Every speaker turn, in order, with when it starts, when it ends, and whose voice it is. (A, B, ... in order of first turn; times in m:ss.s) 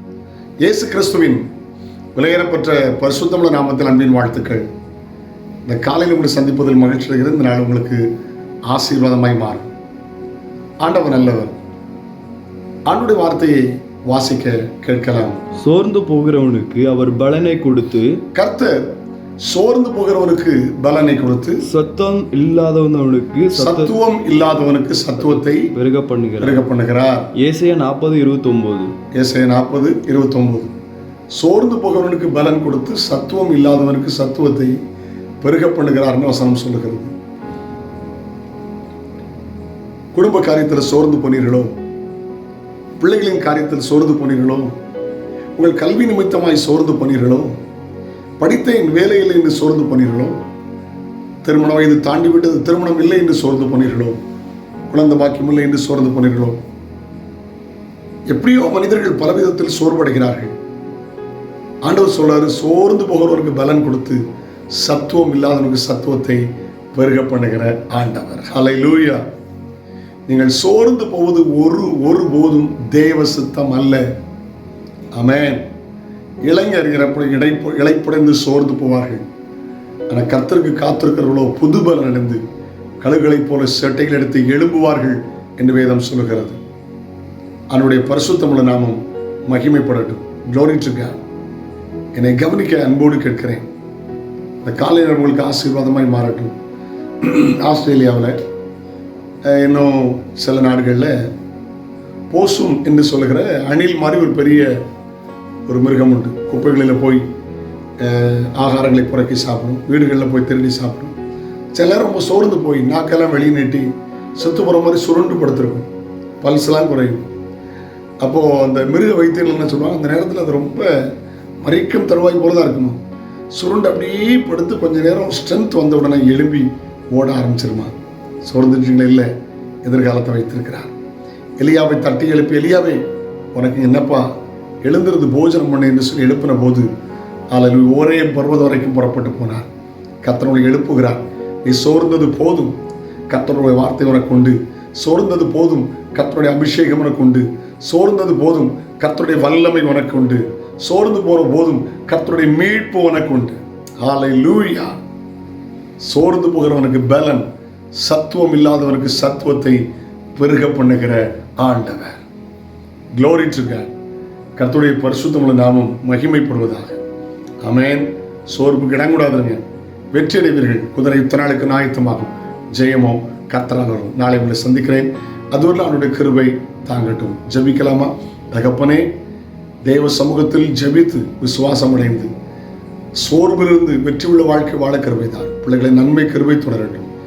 0:00.6-0:01.4 A
0:02.1-0:04.6 A
0:05.7-0:08.0 A
0:08.7-0:09.7 A
0:10.8-0:11.5 A
0:12.9-0:15.4 A
0:15.6-0:18.2 B
0:18.3-0:18.8 A
0:19.4-0:21.6 A
0:21.6-0:23.9 B
0:23.5-0:25.7 A
0:25.2-0:26.6 B
0:26.4-0:27.3 A
0:27.4-0:28.9 B
0:29.1-0:30.7 A
0:31.3-0:34.8 A
0:35.4-0:37.1 A
0:40.1-0:41.7 A
0:43.0-0:44.7 A
0:45.6-0:47.5 A
0:48.4-0:50.4 A
0:51.4-0:54.2 A
0:54.9-0:56.6 A
0:58.3-1:00.5 A
1:01.8-1:04.2 A
1:04.7-1:09.2 A
1:10.3-1:14.0 A
1:15.1-1:15.6 A
1:16.4-1:19.2 A
1:20.1-1:22.4 A
1:23.0-1:26.6 A
1:27.7-1:31.2 A
1:32.1-1:33.6 A
1:34.6-1:36.5 A
1:37.2-1:38.4 A
1:39.4-1:41.1 A
1:42.3-1:44.7 A
1:45.7-1:47.2 A
1:48.0-1:51.1 A
1:51.7-1:55.9 A
1:56.4-1:57.2 A
1:58.2-2:03.0 A
2:03.5-2:09.3 A
2:09.8-2:10.9 A
2:11.6-2:13.0 A
2:13.5-2:14.3 A
2:14.8-2:16.9 A
2:17.5-2:19.7 A
2:20.2-2:22.7 A
2:23.3-2:34.9 A
2:36.0-2:37.4 A
2:38.0-2:39.8 A
2:40.3-2:42.2 A
2:43.1-2:43.9 A
2:44.6-2:47.0 A
2:47.6-2:49.6 A
2:50.1-2:59.1 A
2:59.8-3:02.3 A
3:03.2-3:07.1 A